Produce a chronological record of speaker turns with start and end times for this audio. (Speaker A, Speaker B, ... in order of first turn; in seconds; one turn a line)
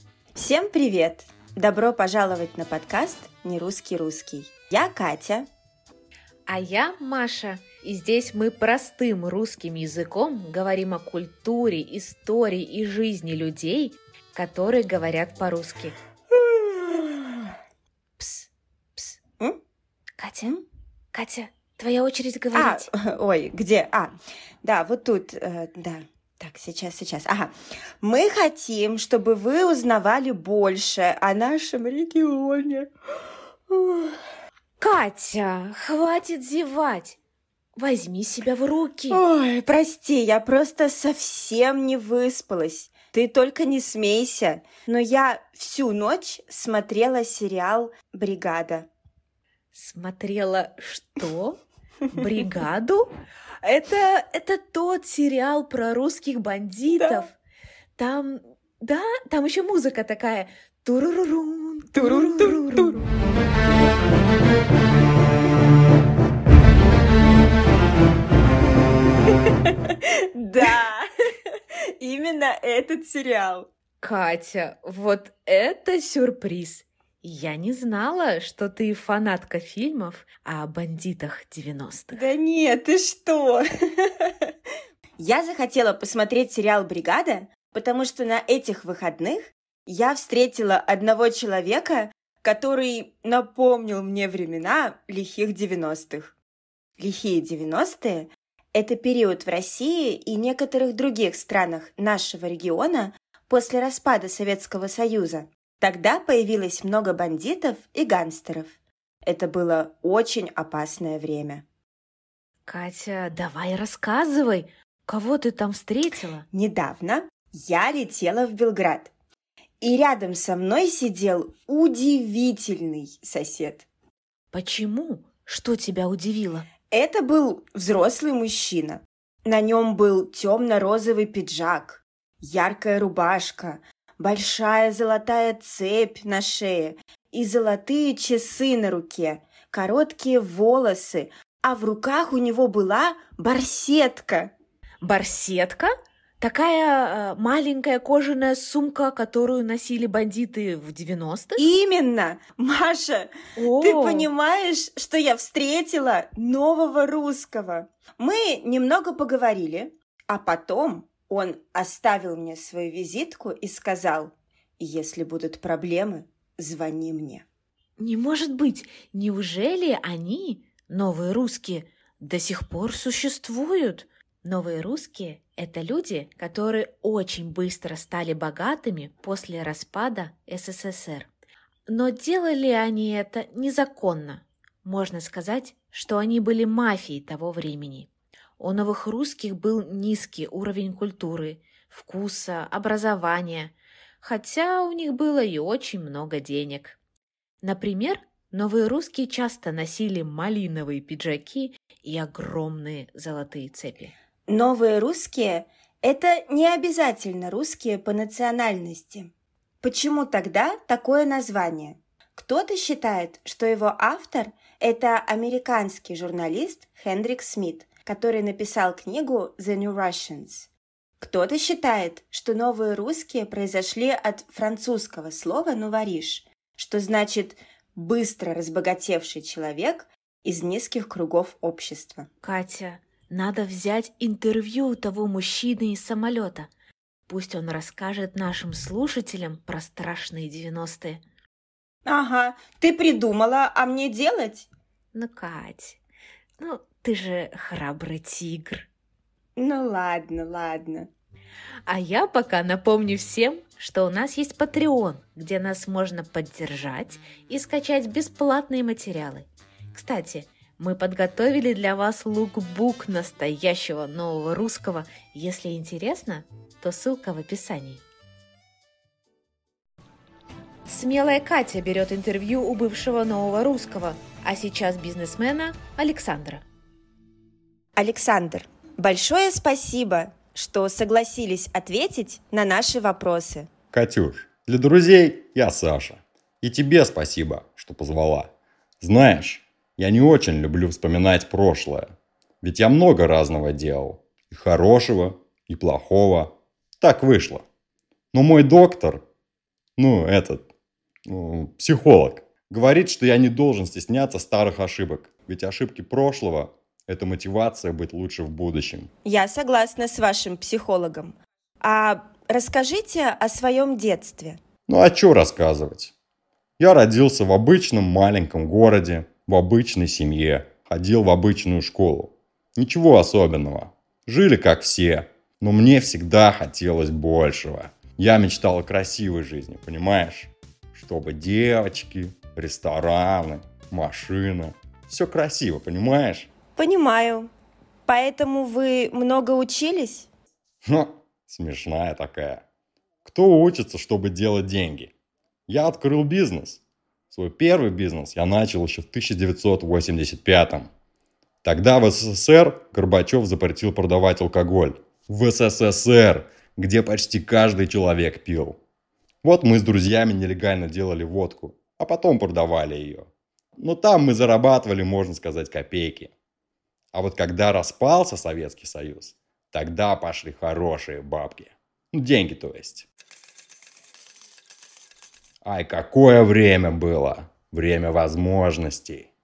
Speaker A: 0.3-5.5
Speaker B: 6.5-15.9
Speaker A: 16.5-17.4
Speaker B: 18.2-19.2
Speaker B: 20.2-20.5
Speaker B: 21.1-22.9
Speaker A: 22.5-32.9
Speaker A: 33.7-34.2
Speaker B: 34.8-37.2
Speaker B: 37.8-39.2
Speaker A: 39.1-48.9
Speaker B: 49.7-51.6
Speaker B: 52.1-53.1
Speaker B: 53.6-57.4
Speaker B: 58.0-63.0
Speaker A: 61.9-63.0
Speaker A: 69.5-71.1
Speaker A: 72.0-73.7
Speaker B: 74.0-82.2
Speaker A: 82.1-84.3
Speaker A: 85.2-96.3
Speaker A: 97.0-111.6
Speaker B: 112.7-116.5
Speaker A: 116.5-119.1
Speaker A: 119.8-123.9
Speaker B: 124.5-126.7
Speaker A: 126.9-144.5
Speaker B: 145.0-151.6
Speaker A: 151.6-167.4
Speaker B: 153.6-154.3
Speaker B: 168.0-181.3
Speaker B: 181.9-197.0
Speaker B: 197.6-204.1
Speaker A: 204.5-232.3
Speaker B: 232.4-236.7
Speaker B: 237.3-241.2
Speaker A: 242.0-244.7
Speaker B: 245.1-246.0
Speaker B: 246.6-248.9
Speaker A: 249.6-251.1
Speaker B: 251.9-268.0
Speaker B: 270.9-276.6
Speaker A: 277.9-283.7
Speaker C: 283.9-297.6
Speaker C: 298.3-299.2
Speaker C: 300.0-300.7
Speaker C: 301.3-309.1
Speaker A: 309.2-314.6
Speaker C: 314.9-316.1
Speaker C: 316.8-336.5
Speaker A: 336.8-337.5
Speaker A: 338.1-340.3
Speaker C: 340.8-342.6
Speaker C: 343.2-345.1
Speaker C: 345.7-350.9
Speaker C: 351.6-358.8
Speaker C: 359.4-366.3
Speaker C: 367.1-373.1
Speaker C: 375.6-379.3